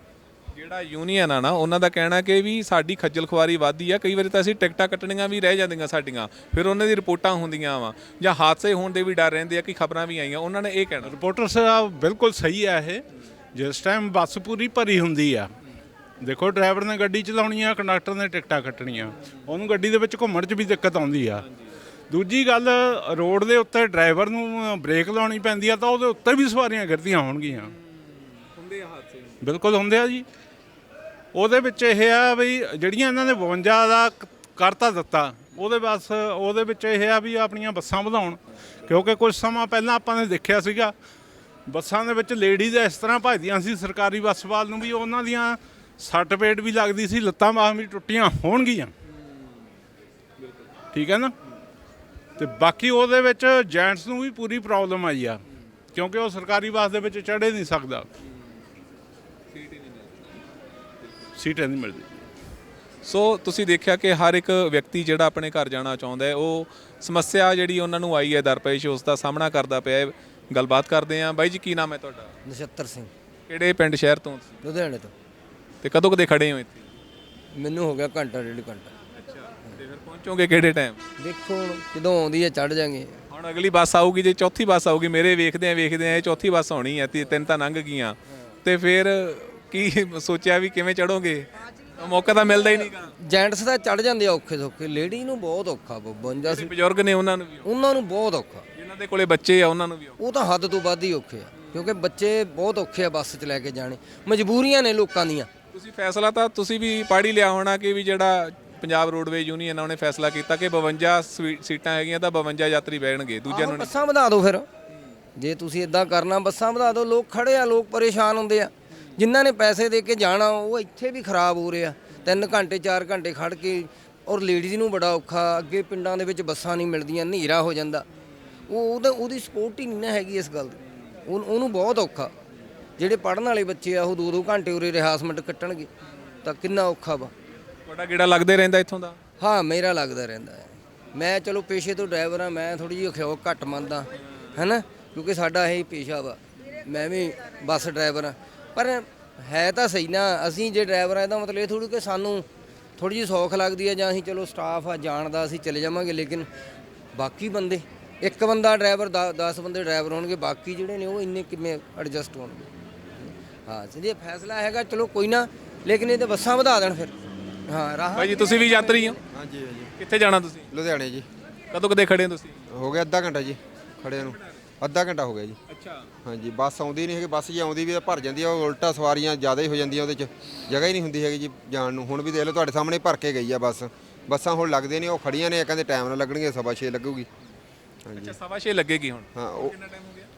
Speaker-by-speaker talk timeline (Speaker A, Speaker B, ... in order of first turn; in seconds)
Speaker A: 0.5-11.1, 21.4-21.7, 27.5-29.4, 50.4-50.7, 59.5-60.4, 63.0-72.3, 73.5-74.6, 75.8-76.9, 79.3-81.0, 83.3-93.1, 96.4-97.7, 98.7-100.2, 101.5-102.0, 105.7-114.0, 122.2-122.5, 137.8-139.2, 168.1-169.2, 170.0-170.7, 171.7-172.6, 175.7-176.1, 188.1-190.3
Speaker B: 11.0-15.5, 16.2-21.4, 22.1-27.7, 29.4-30.2, 31.3-40.9, 41.7-48.9, 50.9-51.3, 52.4-55.4, 55.9-58.1, 61.4-62.1
Speaker C: 72.4-73.1, 74.6-75.1, 77.5-78.9, 81.2-83.2, 93.2-96.7, 97.6-98.6, 100.2-105.5, 113.5-114.7, 115.3-128.0, 128.7-132.3, 133.0-135.9, 136.4-137.3, 139.4-152.4, 153.0-156.5, 157.1-162.7, 163.7-167.1, 167.7-169.2
Speaker D: 169.3-169.9, 170.7-171.2, 172.7-175.6, 176.2-187.3, 188.1-188.4, 189.3-189.7